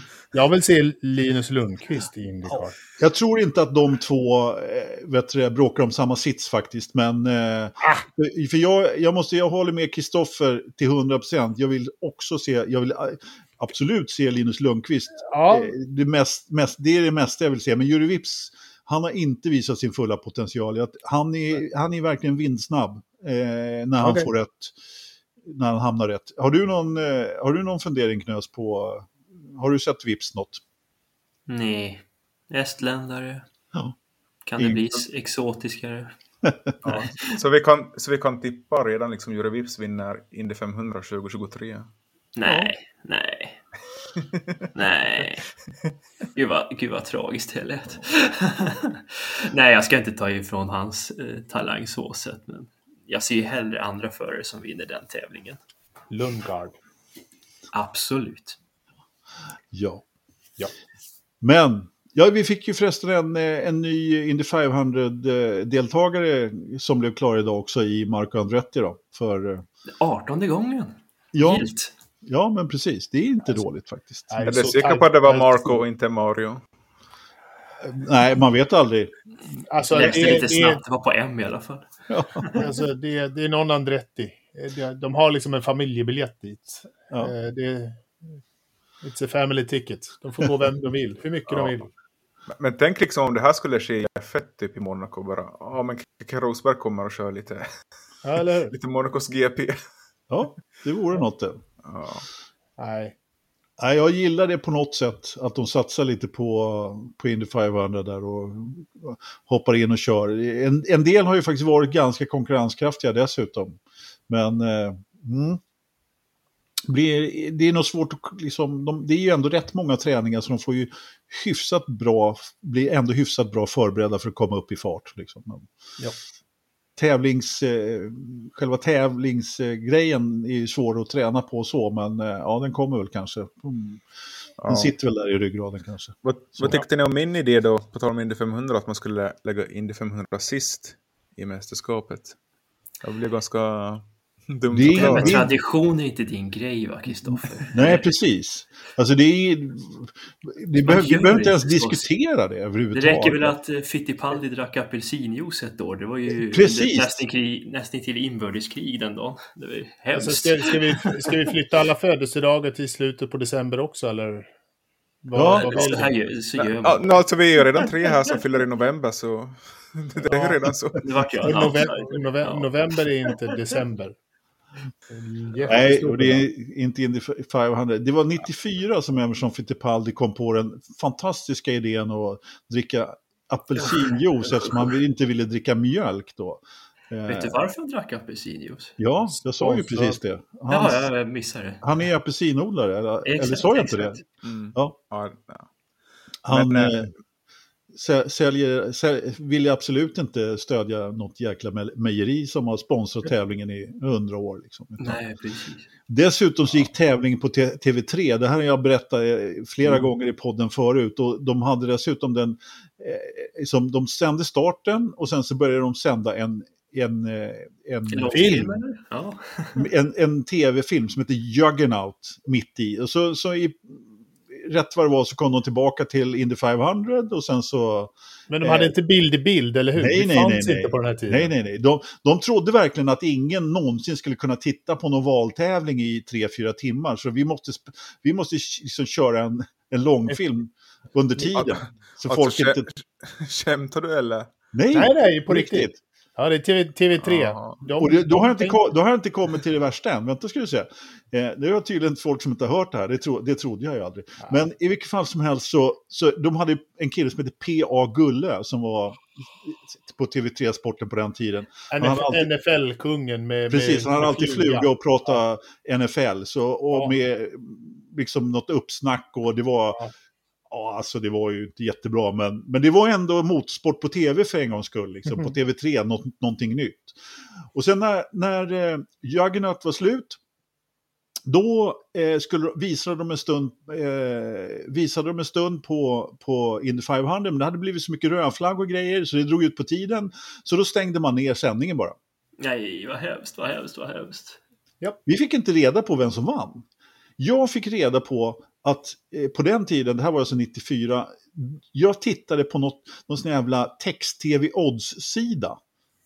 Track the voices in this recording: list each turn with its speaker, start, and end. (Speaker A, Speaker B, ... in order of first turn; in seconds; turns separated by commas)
Speaker A: 0.3-2.8, Speaker B: 2.5-24.8, Speaker A: 7.8-8.1, Speaker A: 15.2-15.8, Speaker A: 24.0-24.3, Speaker B: 25.4-30.6, Speaker C: 31.5-33.5, Speaker C: 34.5-36.1, Speaker B: 34.6-35.0, Speaker B: 36.4-37.0, Speaker D: 36.8-41.9, Speaker C: 42.4-43.6, Speaker B: 42.4-42.7, Speaker C: 44.8-45.5, Speaker C: 46.4-55.6, Speaker A: 56.1-56.8, Speaker C: 57.7-58.6, Speaker B: 59.7-60.0, Speaker B: 61.4-69.7, Speaker C: 70.0-71.9, Speaker B: 71.3-71.7, Speaker B: 72.2-74.4, Speaker A: 74.3-75.8, Speaker D: 74.4-76.6, Speaker B: 77.8-79.2, Speaker A: 79.7-80.8, Speaker C: 79.9-82.6, Speaker B: 80.1-80.6, Speaker B: 82.1-82.5, Speaker A: 82.5-88.0, Speaker A: 89.0-91.9, Speaker D: 91.5-91.8, Speaker D: 92.5-97.7, Speaker A: 98.2-98.8, Speaker D: 98.7-99.8, Speaker B: 100.3-101.6, Speaker D: 101.8-102.3, Speaker A: 102.8-103.2, Speaker B: 103.8-115.6, Speaker B: 116.9-125.7, Speaker B: 127.0-134.0, Speaker D: 134.6-134.9, Speaker B: 134.6-136.8, Speaker D: 136.2-142.4, Speaker D: 143.0-145.3, Speaker B: 144.7-145.5, Speaker C: 144.9-148.1, Speaker B: 147.7-153.6, Speaker C: 150.8-152.1, Speaker C: 152.9-161.4, Speaker B: 156.4-157.1, Speaker A: 160.2-164.5, Speaker A: 165.2-166.1, Speaker B: 165.3-166.0, Speaker C: 165.4-168.1, Speaker D: 166.7-171.0, Speaker C: 171.0-172.7, Speaker A: 171.4-174.2, Speaker A: 175.1-176.5, Speaker B: 175.7-187.7, Speaker C: 184.5-184.9, Speaker C: 187.3-189.0, Speaker B: 189.0-191.1, Speaker A: 189.4-190.2, Speaker C: 190.7-191.8, Speaker B: 191.8-194.2, Speaker C: 193.3-194.2, Speaker D: 194.4-195.7, Speaker B: 196.4-197.1, Speaker D: 196.5-197.0, Speaker B: 197.9-205.2, Speaker C: 205.0-205.9, Speaker B: 206.1-218.7, Speaker C: 218.1-219.9, Speaker A: 218.3-218.7, Speaker B: 219.8-228.9, Speaker A: 228.5-231.5, Speaker B: 230.0-242.9, Speaker D: 241.5-244.5, Speaker B: 244.7-246.0, Speaker A: 244.9-248.8, Speaker D: 247.2-247.8, Speaker B: 248.0-262.5, Speaker A: 261.9-265.3, Speaker B: 263.7-270.0, Speaker B: 270.7-277.2, Speaker B: 277.7-280.4, Speaker B: 281.4-292.2, Speaker C: 292.6-294.6, Speaker B: 295.3-296.9, Speaker B: 297.4-305.8